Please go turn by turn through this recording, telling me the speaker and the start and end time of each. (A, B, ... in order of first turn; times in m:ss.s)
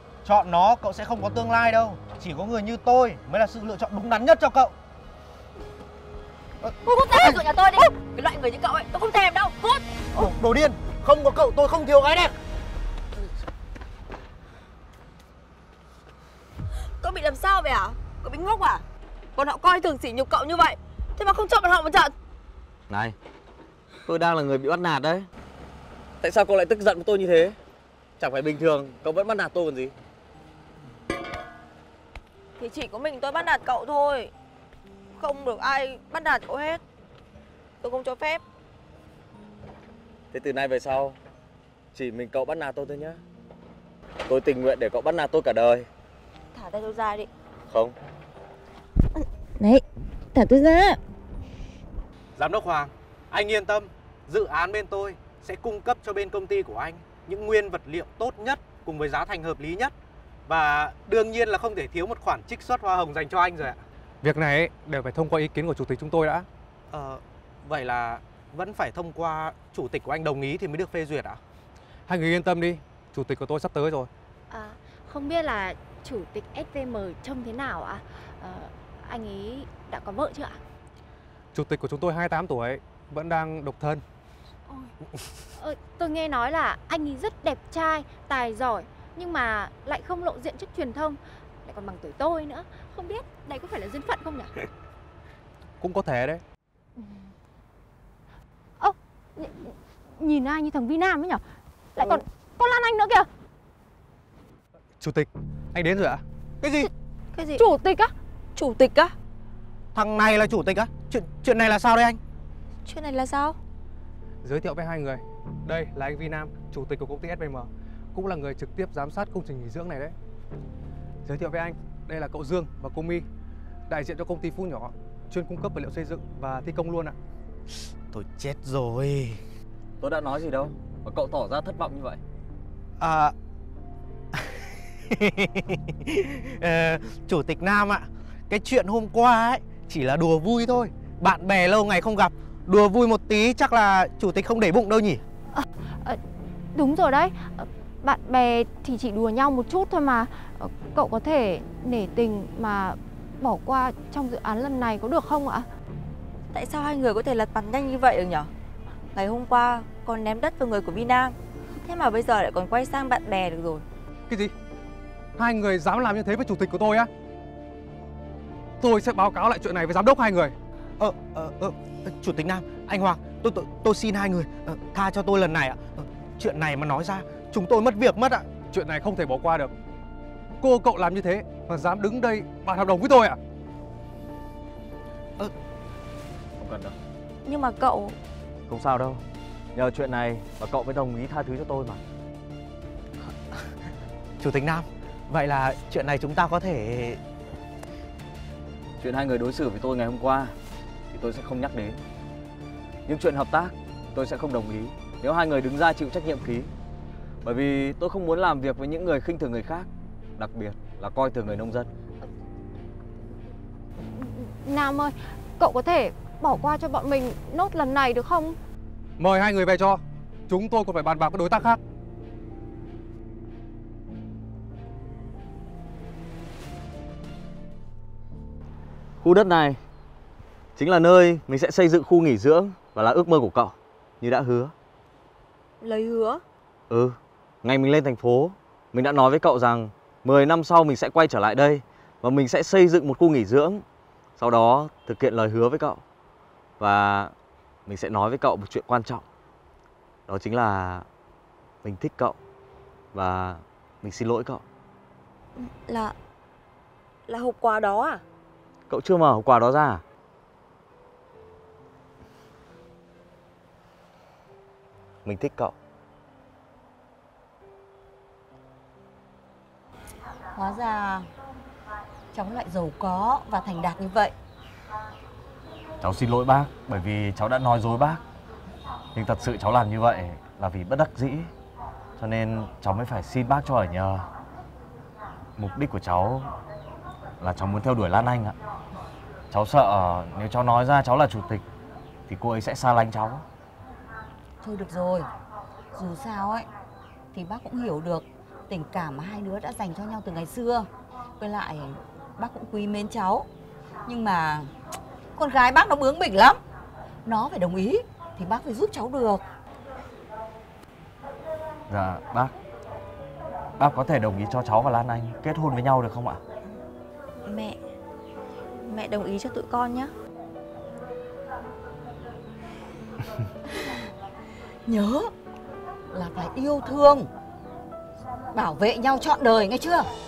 0:00.2-0:04.7 A
0:06.6-0:07.4 A
0:06.8-0:10.3 B
0:10.1-0:12.4 A
0:16.9-0:18.8 B
0:19.4-0:22.1 B
0:22.9-0:23.2 C
0:24.1-0:25.3 C
0:26.2-0:27.6 C
0:28.2-0:29.9 C
0:32.6-0:34.3 B
0:35.1-0:36.8 B
0:37.8-0:38.4 B
0:40.3-0:41.2 C
0:41.9-0:43.2 C
0:44.3-0:45.9 C
0:46.5-0:47.3 B
0:47.7-0:48.0 C
0:50.4-0:51.0 B
0:52.4-0:59.9 A
1:00.5-1:03.8 A
1:04.2-1:06.5 D
1:06.9-1:11.4 A
1:12.1-1:14.1 D
1:14.5-1:20.6 E
1:21.5-1:24.0 D
1:24.7-1:24.9 E
1:25.6-1:34.5 E
1:35.8-1:36.4 D
1:37.0-1:37.3 E
1:38.8-1:41.4 E
1:42.0-1:43.3 E
1:45.0-1:46.2 D
1:46.6-1:46.9 A
1:47.3-1:47.6 B
1:47.6-1:48.1 E
1:48.6-1:49.1 B
1:49.9-1:52.2 A
1:52.8-1:53.6 B
1:54.4-2:00.1 D
2:01.2-2:03.3 D
2:03.9-2:07.2 D
2:08.1-2:09.4 A
2:10.0-2:12.2 C
2:13.0-2:13.3 A
2:14.3-2:25.2 A
2:25.5-2:26.2 E
2:26.7-2:35.7 E
2:36.5-2:38.5 B
2:39.2-2:43.8 B
2:45.4-2:47.1 D
2:48.8-2:50.5 D
2:51.0-2:58.5 A
2:58.6-2:59.7 D
3:00.6-3:03.4 D
3:06.6-3:07.0 C
3:07.4-3:08.2 B
3:08.7-3:09.2 C
3:09.8-3:12.0 C
3:14.4-3:17.2 A
3:19.0-3:20.5 C
3:21.1-3:22.0 C
3:23.1-3:26.7 C
3:27.4-3:31.9 C
3:34.1-3:38.6 E
3:39.2-3:41.8 D
3:49.2-3:49.8 C
3:50.8-3:54.7 C
3:55.8-3:56.4 B
3:56.9-4:03.8 C
4:04.4-4:06.0 C
4:06.8-4:07.3 C
4:07.9-4:09.2 C
4:10.3-4:11.0 C
4:11.8-4:12.4 C
4:13.1-4:14.6 C
4:15.6-4:16.2 B
4:17.3-4:18.2 B
4:18.9-4:20.0 C
4:25.2-4:25.8 C
4:30.5-4:31.3 F
4:32.3-4:34.3 F
4:36.0-4:38.2 C
4:39.2-4:41.5 C
4:42.2-4:44.3 C
4:45.6-4:46.5 C
4:47.4-4:48.6 C
4:49.5-4:51.6 C
4:52.3-4:53.4 C
4:54.6-4:55.3 F
4:55.9-4:56.7 F
4:57.3-5:00.9 F
5:01.4-5:03.5 F
5:04.1-5:04.7 F
5:05.4-5:06.6 F
5:07.2-5:09.4 F
5:11.9-5:12.5 C
5:13.8-5:16.4 C
5:17.4-5:17.8 B
5:18.8-5:20.1 B
5:24.9-5:25.3 F
5:26.1-5:27.3 F
5:28.5-5:30.1 F